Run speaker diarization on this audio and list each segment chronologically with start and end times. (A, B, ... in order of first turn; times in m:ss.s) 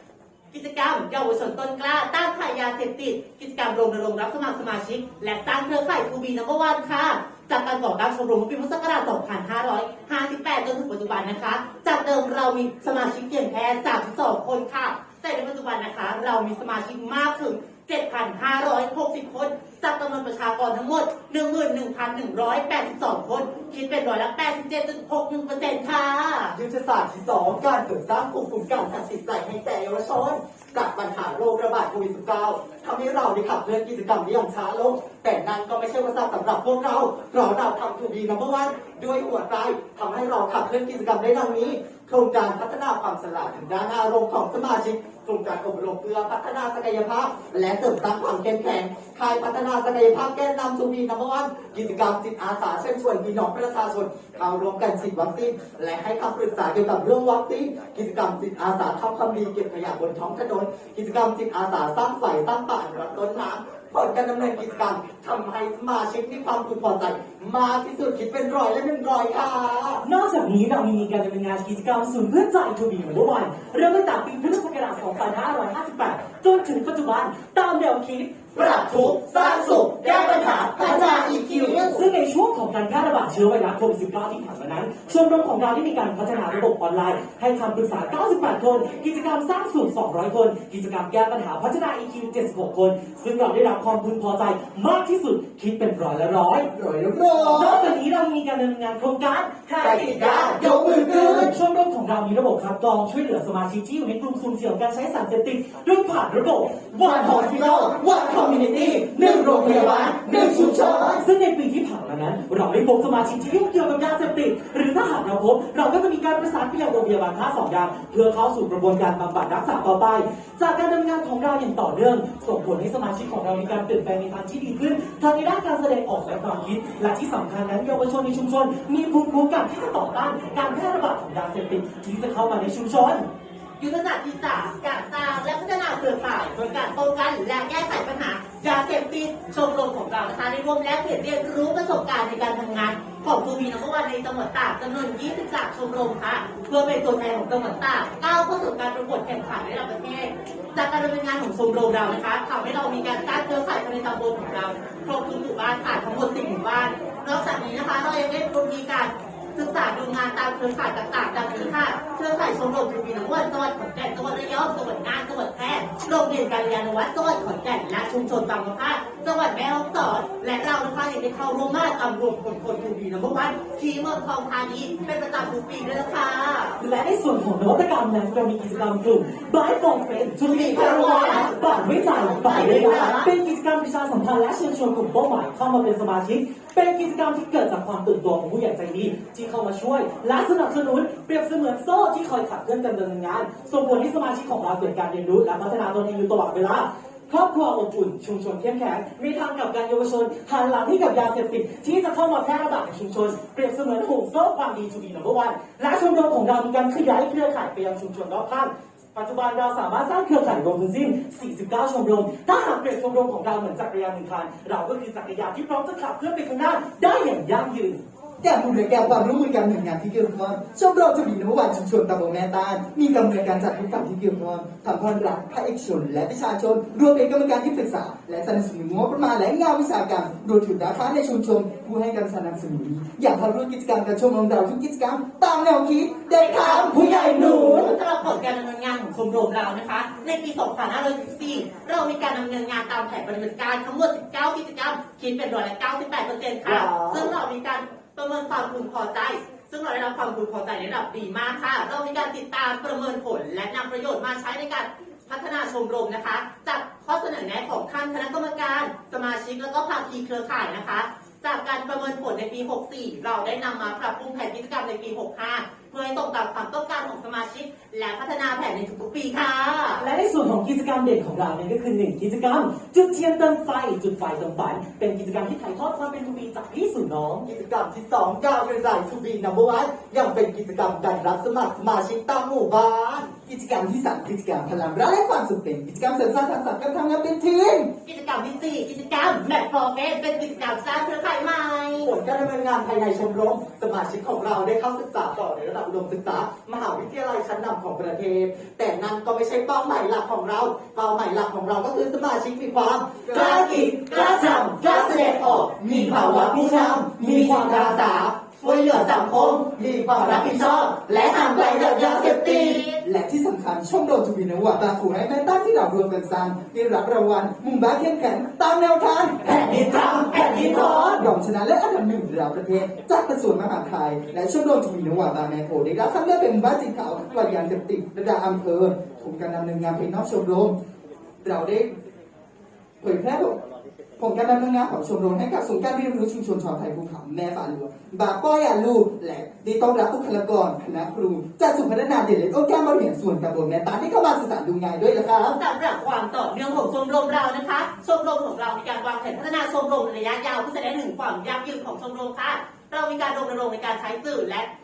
0:00.5-0:26.6 A
0:26.5-1:10.0 B
1:10.0-1:18.5 C
1:18.6-1:21.7 B
1:19.3-1:22.0 A
1:20.8-1:36.7 C
1:36.7-1:37.8 D
1:37.5-2:13.2 C
1:39.8-1:40.9 B
1:40.6-1:41.5 D
1:47.1-1:50.9 B
1:49.7-1:51.2 D
2:13.8-2:56.8 A
2:56.8-3:38.0 C
3:00.4-3:03.3 A
3:38.4-3:57.6 D
3:56.3-4:30.0 A
3:57.3-3:57.9 B
4:06.6-4:07.3 B
4:30.0-4:37.4 C
4:37.4-4:43.3 B
4:43.4-4:47.9 D
4:48.0-4:52.1 A
4:52.0-5:12.8 B
5:03.3-5:13.0 A
5:13.0-5:19.7 D
5:19.4-5:21.2 A
5:19.6-5:21.2 C
5:20.4-5:30.7 D
5:31.4-5:31.9 D
5:33.0-5:33.6 D
5:34.2-5:45.6 D
5:45.5-5:54.7 A